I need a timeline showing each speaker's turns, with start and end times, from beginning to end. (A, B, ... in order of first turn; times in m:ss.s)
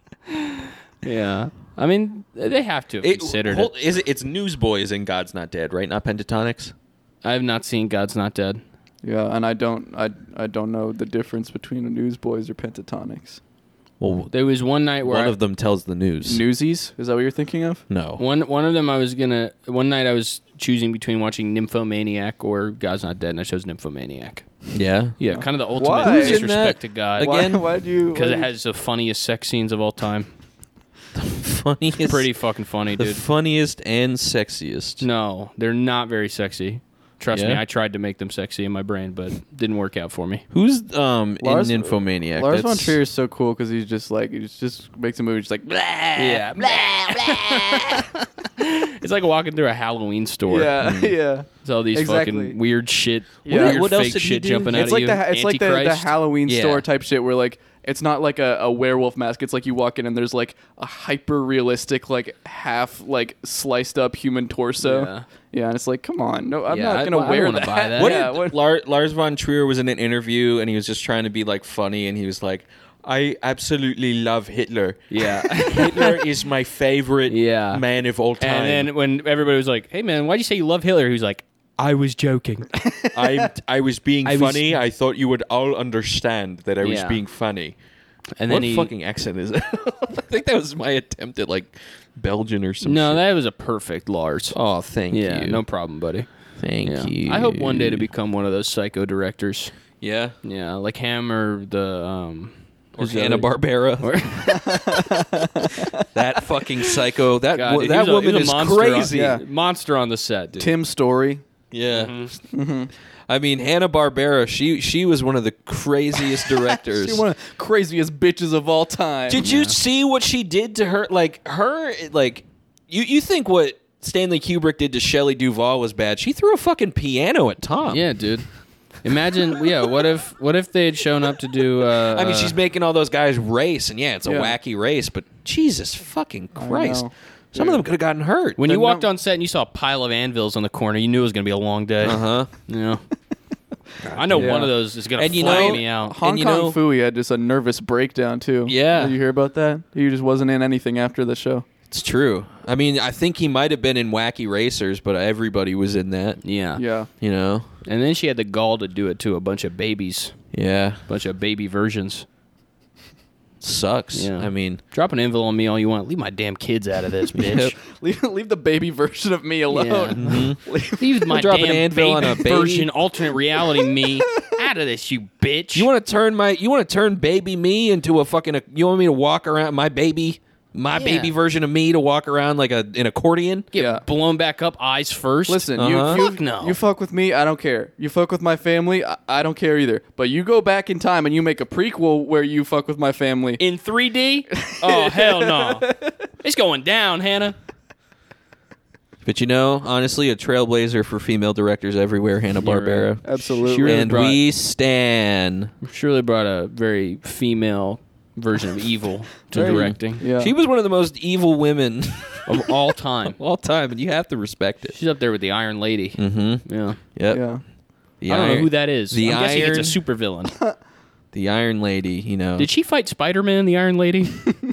0:00.3-0:03.7 A
0:03.0-0:06.7 B
0:07.2-0:08.6 A
0:09.0-0:13.4 C
0:14.0-0:14.3 B
0:14.3-0:15.4 A
0:15.0-0:16.4 B
0:16.2-0:17.8 C
0:17.9-0:18.2 B
0:18.2-0:24.5 A
0:24.7-0:25.2 B
0:25.2-0:27.4 A
0:25.2-0:26.5 C
0:26.0-0:27.6 B
0:27.2-0:28.5 C
0:28.1-0:30.3 A
0:31.2-0:32.3 B
0:32.0-0:33.2 A
0:33.0-0:35.0 B
0:35.0-0:40.4 A
0:37.3-0:37.6 B
0:40.5-0:43.0 B
0:41.4-0:48.0 C
0:46.2-0:50.8 A
0:50.5-0:52.6 C
0:50.8-0:51.2 B
0:51.6-0:56.2 A
0:53.5-0:53.8 C
0:53.5-0:54.8 B
0:54.7-1:08.6 C
0:56.5-0:56.8 B
1:04.8-1:05.3 A
1:06.7-1:08.2 A
1:08.0-1:18.9 B
1:15.1-1:16.2 A
1:17.3-1:17.8 A
1:18.4-1:22.7 A
1:22.8-1:23.5 C
1:23.1-1:27.8 B
1:24.2-1:24.8 A
1:26.8-1:27.2 A
1:28.4-1:28.9 A
1:28.5-1:33.2 B
1:32.8-1:34.6 A
1:34.5-1:35.6 B
1:35.1-1:36.3 A
1:36.6-1:38.1 B
1:36.8-1:39.7 A
1:40.0-1:40.4 B
1:40.4-1:45.2 A
1:43.0-1:44.2 B
1:44.5-1:46.1 C
1:46.1-1:49.4 B
1:47.5-1:50.7 A
1:49.1-1:49.4 C
1:50.6-1:51.4 C
1:51.7-1:52.4 B
1:51.9-1:52.3 A
1:52.5-1:52.9 C
1:53.3-1:57.2 B
1:56.4-1:59.4 C
1:59.3-2:08.1 B
1:59.4-1:59.8 A
2:07.9-2:08.5 A
2:09.0-2:12.6 A
2:12.0-2:18.6 B
2:14.2-2:14.6 C
2:16.6-2:17.8 C
2:18.6-2:23.0 A
2:18.6-2:19.1 C
2:22.0-2:22.5 B
2:24.0-2:26.8 B
2:24.1-2:26.2 A
2:24.3-2:24.7 C
2:25.4-2:31.7 C
2:28.7-2:29.2 B
2:31.9-2:36.4 B
2:36.4-2:36.8 A
2:36.8-2:37.1 C
2:37.2-2:37.7 B
2:37.8-2:40.4 A
2:40.5-2:41.0 B
2:41.1-2:42.3 A
2:43.6-2:44.8 B
2:44.1-2:47.8 A
2:47.4-2:47.7 B
2:47.9-2:51.2 C
2:49.7-2:55.9 A
2:50.2-2:50.6 B
2:51.2-2:52.9 B
2:55.8-3:03.7 B
3:00.9-3:01.3 A
3:03.7-3:06.8 A
3:03.7-3:04.0 C
3:05.5-3:13.6 C
3:05.8-3:06.2 B
3:13.6-3:17.6 A
3:14.6-3:16.1 C
3:19.2-3:23.2 B
3:22.6-3:24.4 A
3:23.2-3:24.1 C
3:23.8-3:25.7 B
3:25.8-3:30.2 A
3:29.5-3:30.5 C
3:29.5-3:32.7 B
3:32.5-3:33.4 A
3:33.3-3:35.0 B
3:34.9-3:37.0 A
3:36.2-3:37.4 B
3:37.3-3:37.6 C
3:38.2-3:40.0 B
3:38.3-3:40.6 A
3:41.3-3:42.7 B
3:42.6-3:44.5 A